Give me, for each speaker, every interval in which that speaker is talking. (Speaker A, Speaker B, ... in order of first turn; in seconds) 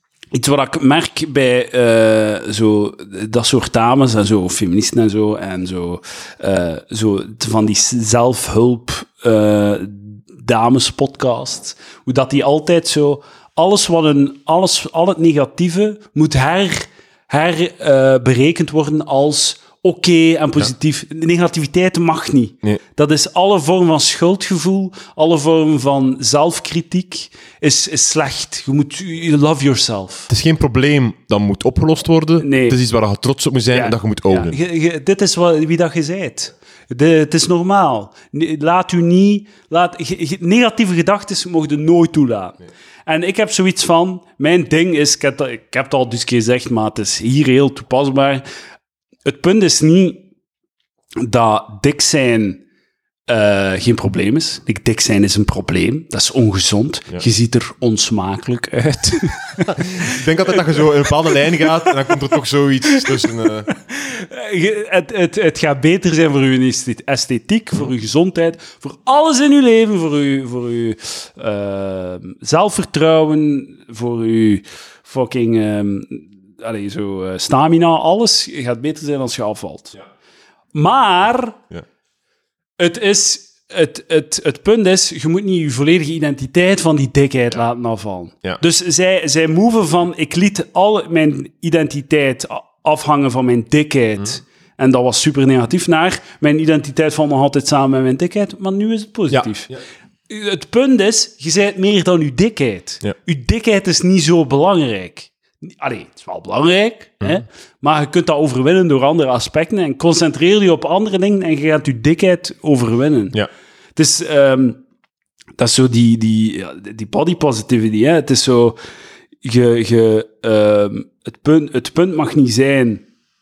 Speaker A: 0.3-30.3, 32.4-32.8, 33.7-48.4, 49.2-50.2, 51.2-52.6, 53.3-62.1, 62.9-80.0, 80.7-81.6, 82.8-99.7, 100.3-113.4, 114.0-114.8, 115.6-118.8, 119.4-123.0
Speaker B: 30.3-34.6, 59.7-63.7, 99.3-99.8